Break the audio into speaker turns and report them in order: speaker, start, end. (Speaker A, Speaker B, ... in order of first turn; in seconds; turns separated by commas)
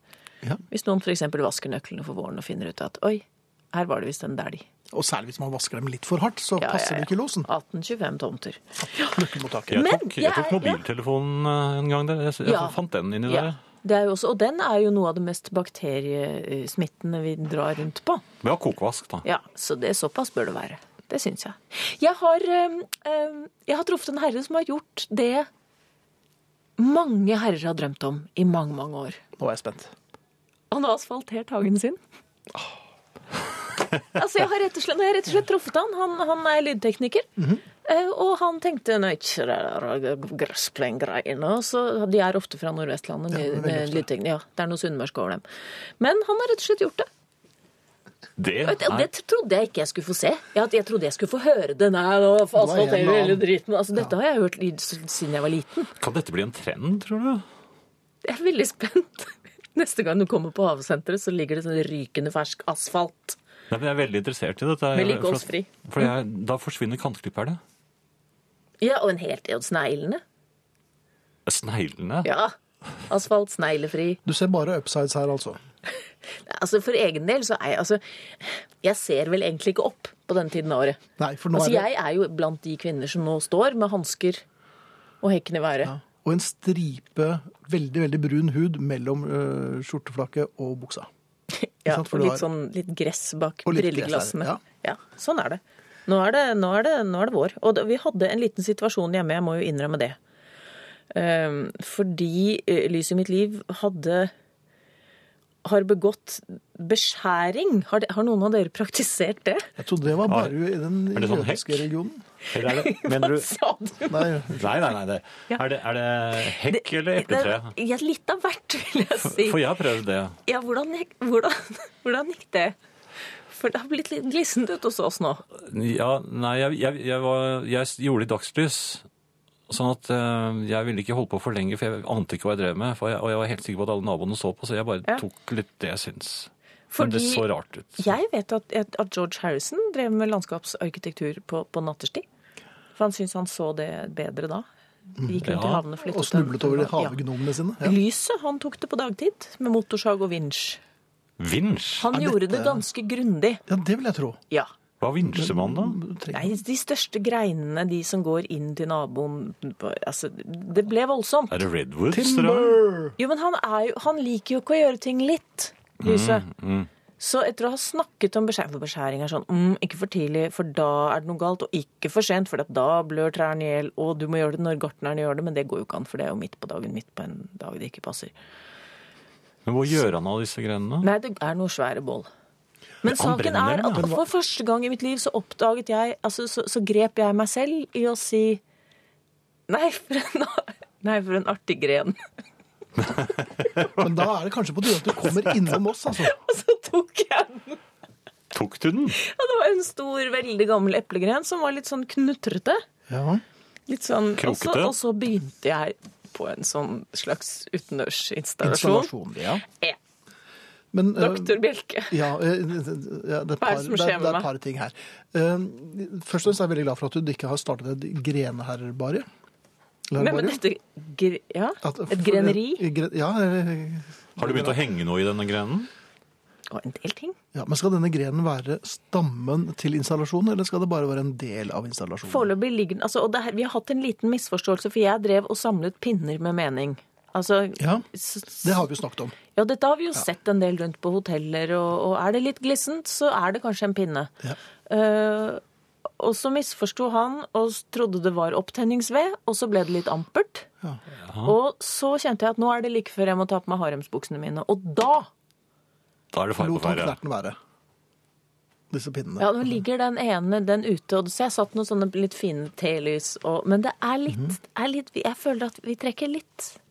Speaker A: 0.7-4.7, Speaker B: 4.9-7.5, Speaker A: 6.6-10.8, Speaker B: 8.8-9.8, Speaker C: 9.7-13.6, Speaker A: 12.4-18.2, Speaker C: 18.4-19.2, Speaker A: 19.2-25.5, Speaker A: 26.8-29.2, Speaker B: 29.4-29.9, Speaker A: 30.7-32.0, Speaker A: 34.0-37.3, Speaker B: 37.4-37.6, Speaker A: 37.8-45.4, Speaker B: 43.3-44.1, Speaker A: 46.0-47.1, Speaker C: 48.4-49.1, Speaker A: 48.6-55.9, Speaker B: 52.5-53.4, Speaker C: 56.0-57.4, Speaker A: 58.2-63.4, Speaker C: 63.7-67.6, Speaker A: 64.9-65.9, Speaker A: 68.8-70.2, Speaker C: 71.5-72.3, Speaker A: 72.2-72.5, Speaker A: 73.1-74.2, Speaker B: 74.2-75.6, Speaker A: 75.9-81.0, Speaker B: 81.2-81.8, Speaker A: 81.5-84.4, Speaker A: 85.2-85.9, Speaker B: 85.8-91.1, Speaker A: 91.5-100.2, Speaker B: 91.8-92.5, Speaker B: 93.7-94.6, Speaker A: 101.1-104.3, Speaker A: 105.6-109.7, Speaker B: 109.8-112.2, Speaker C: 110.3-110.5, Speaker C: 111.1-111.9, Speaker C: 112.5-113.5, Speaker A: 112.5-114.3, Speaker B: 114.1-114.6, Speaker C: 114.5-117.7, Speaker A: 116.4-119.6, Speaker C: 119.2-120.4, Speaker A: 120.5-122.8, Speaker A: 123.5-125.4, Speaker C: 125.5-129.0, Speaker C: 129.7-138.1, Speaker A: 136.9-137.4, Speaker A: 138.0-142.2, Speaker A: 142.9-144.7, Speaker B: 145.2-145.4, Speaker A: 145.2-147.2, Speaker C: 145.4-145.8, Speaker B: 146.0-147.9, Speaker A: 147.8-150.8, Speaker C: 151.4-152.1, Speaker A: 152.0-153.6, Speaker B: 152.1-152.8, Speaker B: 153.7-154.4, Speaker C: 155.0-156.0, Speaker B: 155.2-156.6, Speaker A: 156.3-161.6, Speaker C: 161.5-162.8, Speaker B: 162.1-163.2, Speaker A: 163.2-166.5, Speaker C: 166.0-166.9, Speaker A: 167.2-178.3, Speaker C: 179.7-181.1, Speaker A: 181.0-182.3, Speaker A: 183.0-188.6, Speaker C: 183.0-184.1, Speaker A: 189.7-192.2, Speaker C: 193.0-194.0, Speaker B: 193.9-196.3, Speaker A: 196.1-197.8, Speaker C: 198.5-199.2, Speaker A: 199.2-202.8, Speaker B: 203.1-203.4, Speaker A: 203.9-209.1, Speaker C: 204.4-204.9, Speaker B: 208.6-209.6, Speaker A: 209.6-210.0, Speaker B: 210.9-219.2, Speaker A: 211.2-212.2, Speaker A: 213.6-214.5, Speaker B: 220.1-220.6, Speaker A: 220.2-222.8, Speaker B: 221.8-224.8, Speaker C: 224.4-225.9, Speaker A: 226.7-227.3, Speaker B: 227.5-232.5, Speaker A: 232.3-238.8, Speaker B: 237.8-239.3, Speaker A: 239.5-244.3, Speaker A: 244.9-245.6, Speaker A: 246.2-250.7, Speaker C: 251.2-251.5, Speaker A: 251.4-255.3, Speaker C: 256.3-257.2, Speaker B: 256.6-257.6, Speaker B: 258.9-259.8, Speaker A: 259.4-266.8, Speaker B: 264.3-264.5